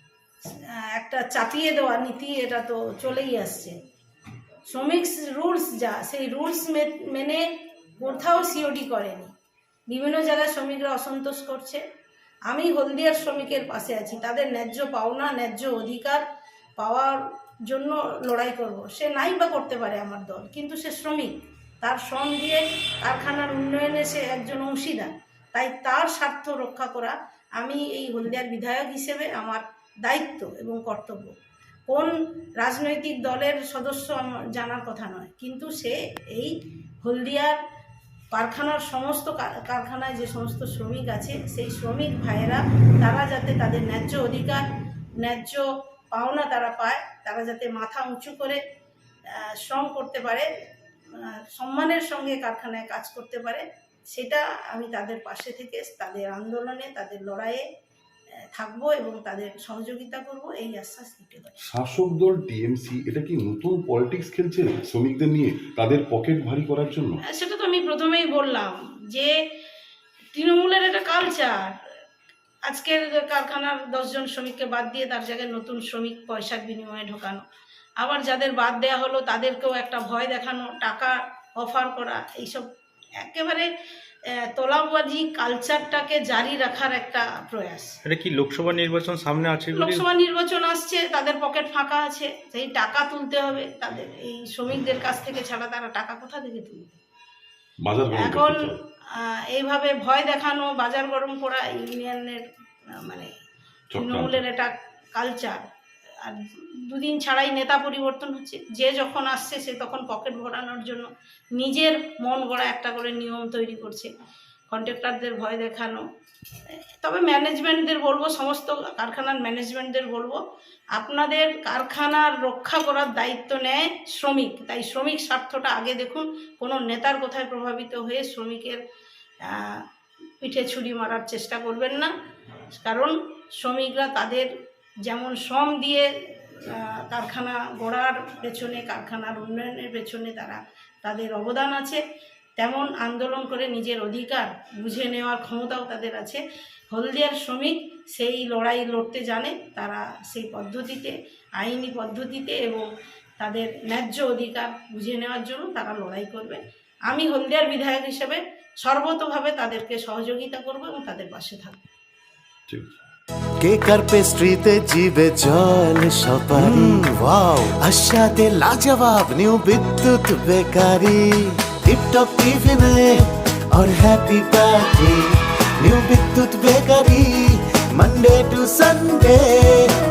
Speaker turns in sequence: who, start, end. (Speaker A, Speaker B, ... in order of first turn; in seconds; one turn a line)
Speaker A: 0.7-3.8
Speaker A: 4.7-7.5
Speaker A: 8.0-9.3
Speaker A: 9.9-11.8
Speaker A: 12.5-16.2
Speaker A: 16.8-31.3
Speaker A: 31.9-37.6
Speaker A: 38.3-44.6
Speaker A: 45.2-48.6
Speaker A: 49.3-50.5
Speaker A: 51.1-57.6
Speaker A: 58.5-61.6
Speaker B: 61.6-67.2
Speaker A: 67.3-69.4
Speaker A: 70.3-71.8
Speaker A: 72.7-77.4
Speaker A: 78.0-82.7
Speaker A: 83.2-83.7
Speaker A: 84.3-88.0
Speaker C: 88.0-90.0
Speaker A: 89.7-97.0
Speaker B: 97.8-98.8
Speaker A: 98.1-103.3
Speaker B: 103.9-104.4
Speaker A: 104.0-105.6
Speaker A: 106.2-114.1
Speaker A: 114.7-116.0
Speaker A: 117.0-120.4
Speaker A: 120.9-128.8
Speaker A: 129.5-129.8
Speaker A: 130.4-132.1
Speaker A: 132.7-134.5
Speaker A: 135.1-142.0
Speaker A: 142.6-152.9
Speaker A: 153.4-161.8
Speaker B: 162.7-163.0
Speaker D: 163.6-175.2
Speaker B: 166.5-167.1
Speaker D: 175.8-177.3
Speaker D: 178.0-179.8